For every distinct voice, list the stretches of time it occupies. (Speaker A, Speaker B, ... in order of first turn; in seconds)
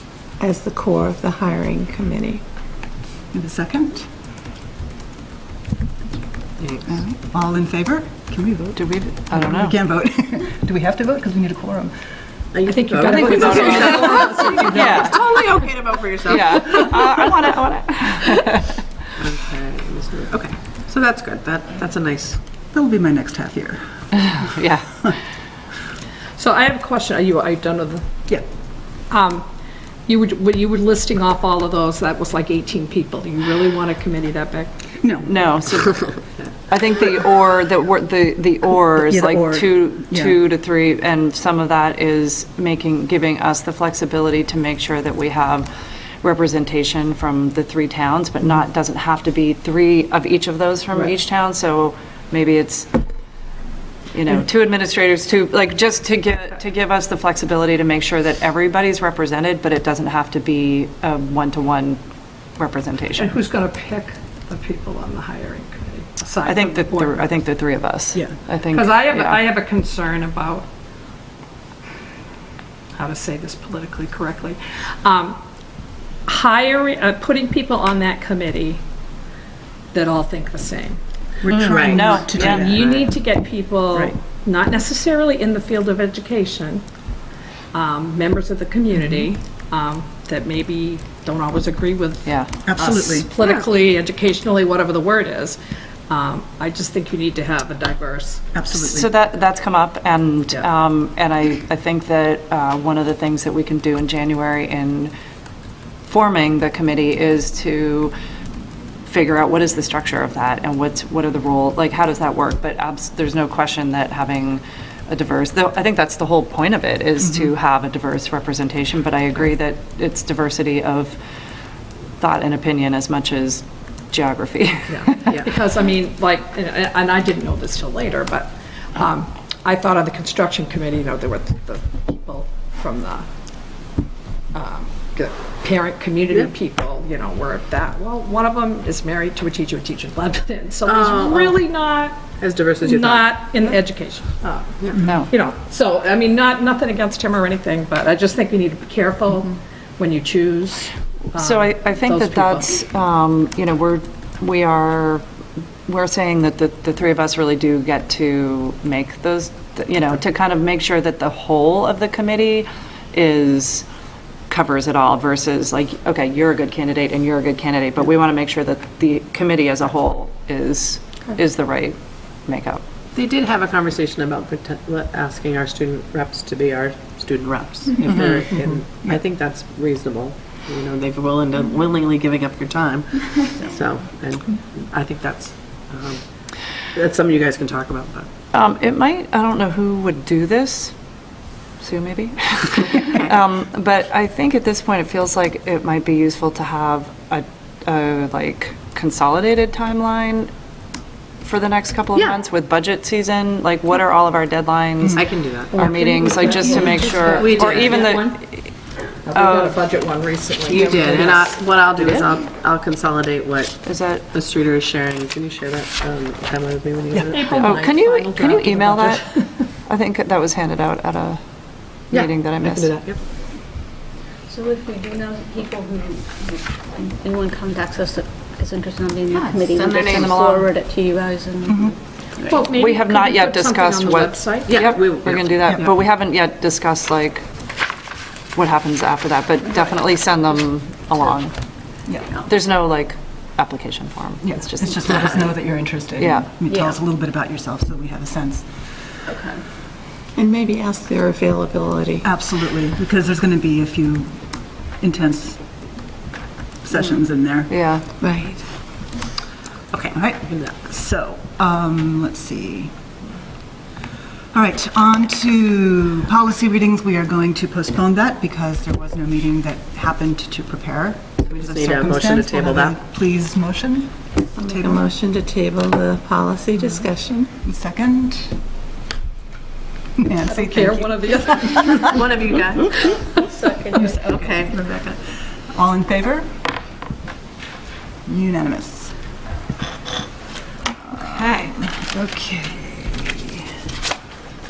Speaker A: 0.4-2.4, 250.4-252.3, 258.2-258.6, 274.6-277.5
Speaker B: 3.3-4.1, 6.9-11.9, 14.8-15.1, 22.7-24.3, 35.0-35.3, 39.0-40.4, 81.4-82.8, 92.7-93.3, 98.5-99.1, 178.0-178.4, 205.0-205.3, 217.1-217.4, 231.7-231.9, 244.4-248.7, 252.2-254.4, 255.0-255.6, 256.8-257.7, 260.1-262.9, 264.5-275.0, 277.5-278.6, 280.2-282.0, 285.7-286.6, 288.3-289.1, 291.0-293.6
Speaker C: 6.6-6.9, 12.5-17.0, 19.2-22.4, 81.5-83.1, 140.8-141.7, 142.4-143.4, 173.2-186.2, 186.8-188.3, 205.1-206.0, 207.3-208.2, 210.7-217.9, 222.1-223.2, 229.3-230.5, 234.7-235.9, 259.9-260.7, 271.5-273.0, 282.0-282.9, 284.2-285.2
Speaker D: 8.8-9.8, 13.1-15.5, 16.3-18.8, 24.1-25.2, 35.2-36.2, 36.7-45.7, 46.2-52.9, 54.1-62.0, 62.6-63.4, 66.4-69.4, 81.5-82.8, 92.2-92.5, 98.7-105.1, 106.1-108.1, 109.1-121.2, 122.2-125.4, 145.0-145.3, 151.3-155.2, 155.9-163.8, 164.5-172.8, 188.5-190.9, 191.8-200.5, 201.4-208.7, 209.3-209.8, 210.7-212.3, 213.8-214.2, 217.6-219.3, 219.9-221.4, 222.1-222.9, 230.2-230.7, 232.7-237.4, 238.6-241.5, 242.5-245.5, 246.2-246.5, 257.7-258.1, 291.3-291.7
Speaker E: 12.6-15.0, 26.4-28.2, 29.1-29.4, 30.1-35.0, 63.2-67.4, 68.7-70.7, 73.0-75.4, 76.3-78.8, 79.9-81.0, 82.3-86.8, 87.7-95.6, 96.1-98.5, 124.9-133.2, 134.5-142.3, 142.8-152.7, 205.7-208.4, 209.2-211.7, 217.3-219.6, 232.5-234.8, 280.5-282.4
Speaker F: 206.6-207.2, 224.5-232.7, 246.7-246.9, 249.3-249.6, 283.0-284.8